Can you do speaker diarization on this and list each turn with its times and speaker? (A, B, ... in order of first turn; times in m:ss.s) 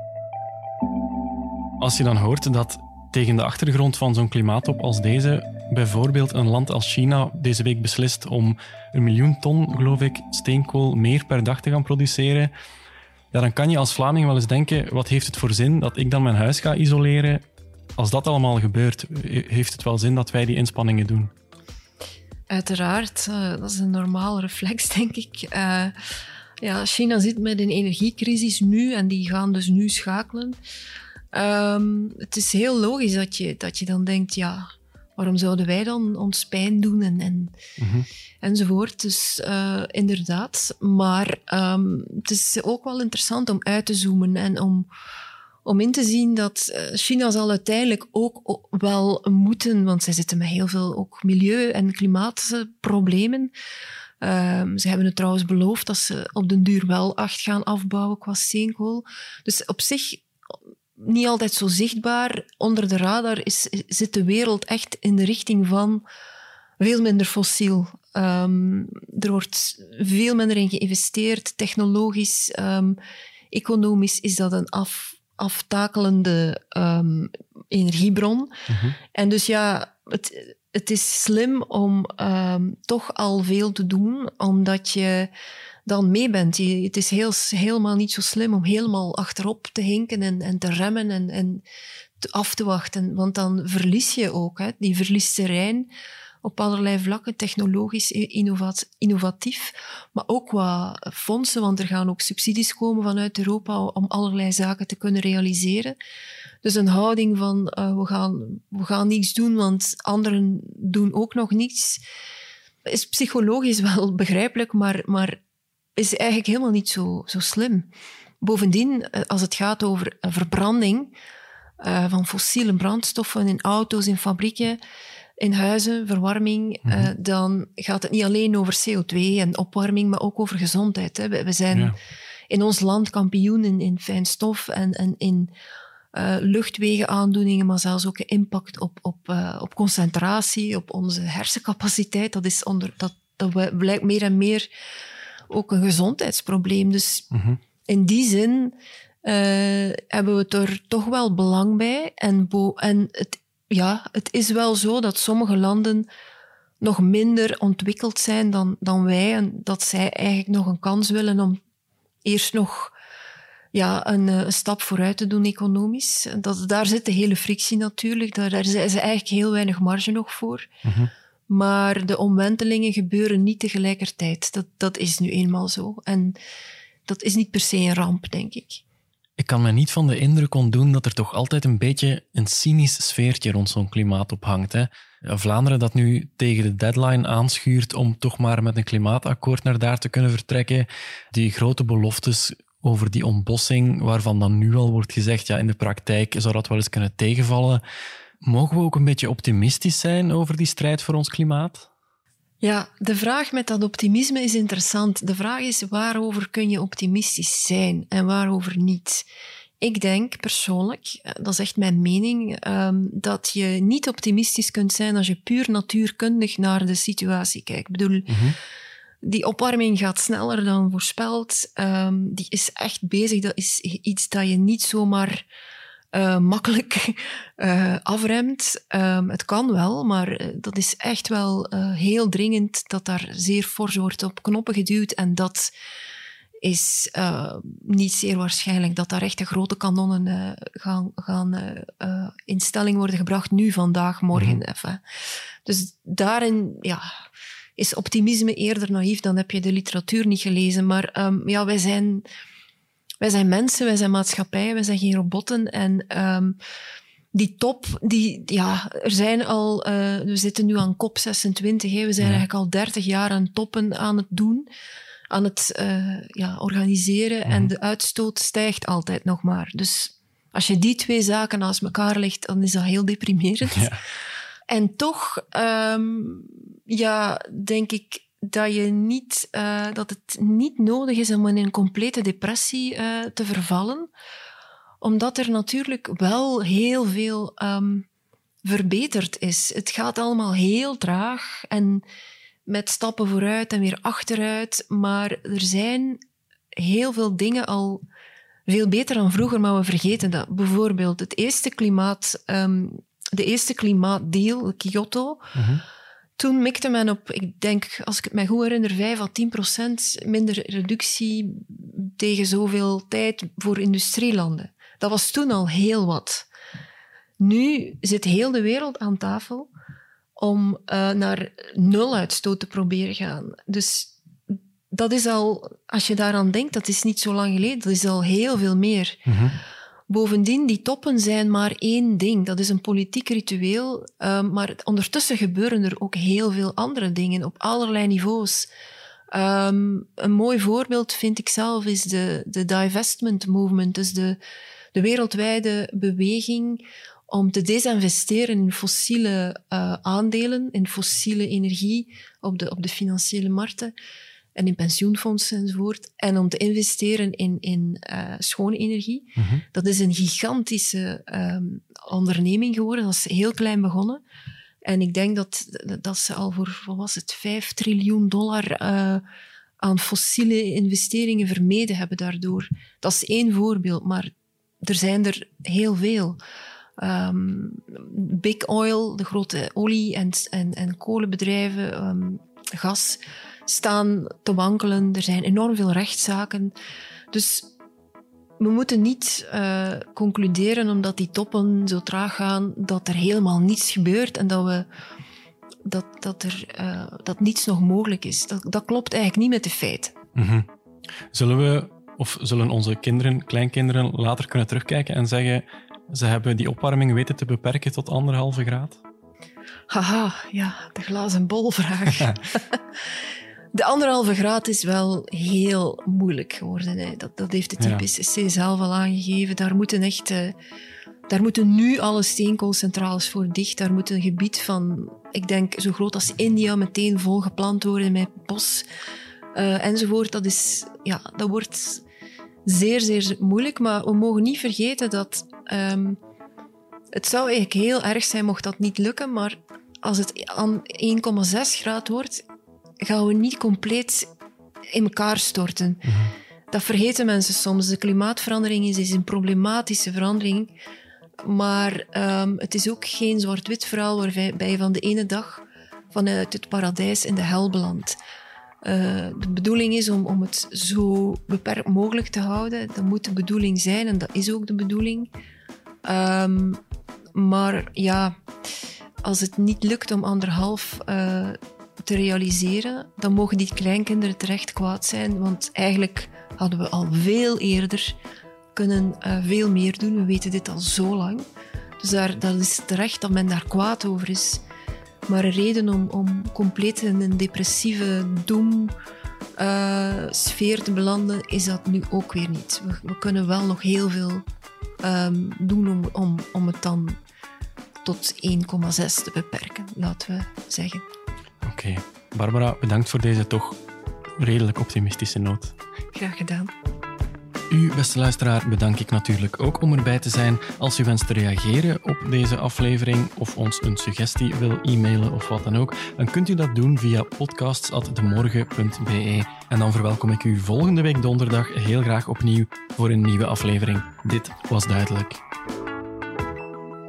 0:01.8-0:12.5 A
0:13.3-0:17.4 A
0:18.0-0:21.3 A
0:22.5-0:26.0 B
0:26.6-0:30.6 B
0:31.3-0:37.6 B
0:37.8-0:38.1 A
0:38.4-0:44.9 B
0:45.6-0:53.5 B
0:54.2-1:00.2 B
1:01.0-1:06.0 B
1:06.8-1:13.0 B
1:13.5-1:18.6 B
1:18.7-1:19.0 A
1:19.1-1:25.3 B
1:25.9-1:31.6 B
1:32.2-1:35.9 B
1:36.4-1:46.0 B
1:46.6-1:52.0 B
1:52.9-1:55.4 B
1:56.0-1:57.9 B
1:58.4-2:01.1 B
2:01.8-2:04.8 B
2:05.4-2:11.9 B
2:12.5-2:15.5 B
2:16.1-2:24.7 B
2:25.5-2:27.3 B
2:27.3-2:27.6 A
2:27.9-2:36.1 B
2:36.8-2:41.6 B
2:42.2-2:42.9 B
2:43.7-2:50.7 B
2:50.8-2:51.1 A
2:51.5-2:56.4 B
2:57.1-2:58.8 B
2:59.4-3:17.8 A
3:18.4-3:21.9 A
3:22.6-3:29.2 B
3:29.8-3:38.4 B
3:38.3-3:38.6 A
3:39.2-3:45.5 B
3:46.1-3:55.7 B
3:56.6-4:05.0 B
4:04.3-4:04.6 A
4:05.6-4:07.2 B
4:07.8-4:12.3 B
4:13.2-4:16.6 B
4:17.3-4:24.7 B
4:22.2-4:22.4 A
4:25.3-4:33.9 B
4:27.5-4:27.7 A
4:33.7-4:34.0 A
4:34.7-4:44.1 B
4:45.0-4:48.1 B
4:48.6-4:52.0 B
4:52.7-4:56.2 B
4:56.8-4:58.0 B
4:58.7-5:05.6 B
5:05.6-5:05.8 A
5:06.4-5:16.5 B
5:17.4-5:19.7 B
5:20.4-5:29.2 B
5:29.3-5:29.6 A
5:30.1-5:38.7 B
5:39.3-5:44.4 B
5:44.9-5:53.9 B
5:54.6-6:04.2 B
5:59.4-5:59.6 A
6:04.8-6:09.2 B
6:09.8-6:16.4 B
6:17.0-6:26.7 B
6:27.3-6:27.7 B
6:28.6-6:34.9 B
6:35.8-6:40.1 B
6:40.4-6:40.7 A
6:41.3-6:49.0 A
6:49.9-6:52.8 B
6:53.7-7:00.5 B
6:57.8-6:58.0 A
7:01.3-7:08.8 B
7:09.5-7:12.0 B
7:12.6-7:16.2 B
7:17.1-7:22.4 B
7:23.0-7:24.3 B
7:24.9-7:26.1 B
7:26.0-7:26.3 A
7:26.7-7:30.7 B
7:31.4-7:38.2 B
7:38.8-7:45.3 B
7:46.0-7:46.8 B
7:47.3-7:48.4 B
7:49.2-7:58.2 B
7:58.8-8:01.5 B
8:02.0-8:04.6 B
8:05.3-8:08.9 B
8:09.6-8:14.4 B
8:15.0-8:17.2 B
8:18.0-8:21.1 B
8:21.6-8:23.8 A
8:24.4-8:25.8 A
8:26.1-8:26.7 B
8:27.7-8:45.4 A